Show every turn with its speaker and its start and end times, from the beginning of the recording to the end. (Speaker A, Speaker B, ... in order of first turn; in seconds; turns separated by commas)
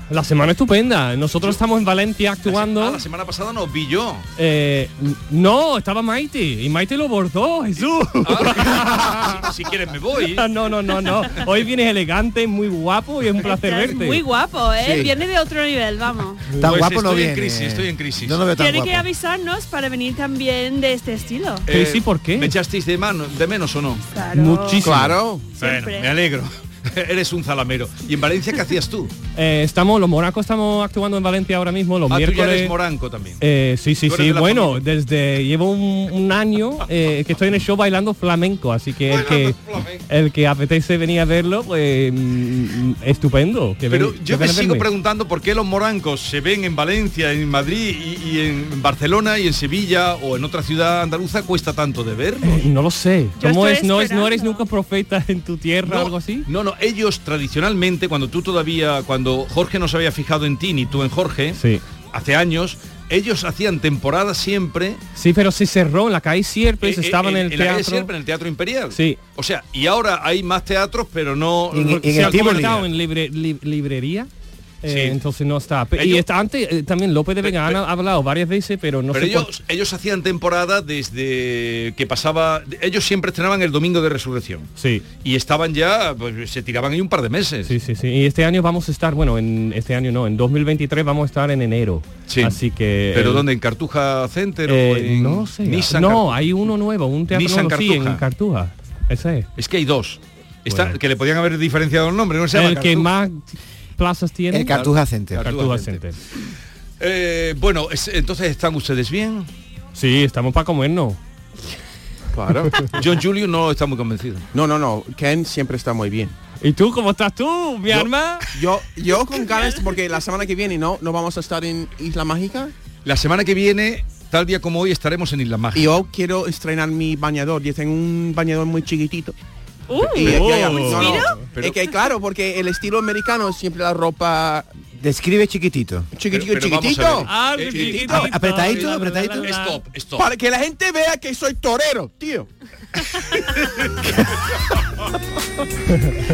Speaker A: 0.1-3.0, Speaker B: 2.5-4.2, Speaker A: 4.4-9.5, Speaker B: 8.2-10.5, Speaker A: 10.3-14.2, Speaker C: 13.4-16.4, Speaker D: 14.8-15.1, Speaker E: 16.6-19.1, Speaker B: 16.6-18.5, Speaker C: 18.5-21.6, Speaker B: 21.7-24.1, Speaker A: 21.7-22.5, Speaker C: 24.1-24.9, Speaker A: 24.4-25.2, Speaker D: 24.8-25.5, Speaker C: 25.6-26.1, Speaker B: 25.6-29.1, Speaker A: 29.4-32.7, Speaker B: 32.1-33.4, Speaker A: 33.4-44.9, Speaker B: 34.1-34.8, Speaker B: 39.1-40.0, Speaker B: 43.9-52.6, Speaker A: 52.4-56.5, Speaker C: 53.4-54.6, Speaker B: 55.9-61.6, Speaker A: 61.5-61.8, Speaker B: 62.1-65.0, Speaker A: 65.2-68.1, Speaker B: 66.8-72.9, Speaker A: 68.9-69.2, Speaker E: 71.7-72.8, Speaker A: 71.8-74.3, Speaker A: 74.8-79.6, Speaker B: 74.9-75.2, Speaker B: 76.0-76.2, Speaker B: 77.4-77.8, Speaker B: 79.1-84.7, Speaker A: 84.8-85.0, Speaker B: 85.2-87.7, Speaker A: 87.7-93.4, Speaker B: 92.3-92.6, Speaker B: 93.1-96.6, Speaker A: 94.7-99.5, Speaker B: 97.3-98.2, Speaker B: 99.6-103.1, Speaker A: 100.7-101.0, Speaker A: 102.5-106.2, Speaker E: 104.5-105.5, Speaker B: 104.7-106.0, Speaker B: 107.0-109.5, Speaker A: 109.9-111.2, Speaker D: 112.3-112.9, Speaker B: 112.9-114.5, Speaker D: 114.5-116.3, Speaker A: 116.6-118.5, Speaker D: 118.5-122.7, Speaker C: 119.5-119.8, Speaker B: 123.0-126.1, Speaker D: 125.8-129.4, Speaker C: 129.9-131.4, Speaker A: 130.0-131.4, Speaker D: 130.2-134.7, Speaker B: 131.5-131.8, Speaker E: 135.0-136.1, Speaker D: 136.1-138.3, Speaker B: 136.3-140.3, Speaker A: 137.3-139.8, Speaker E: 138.1-139.5, Speaker D: 140.2-142.5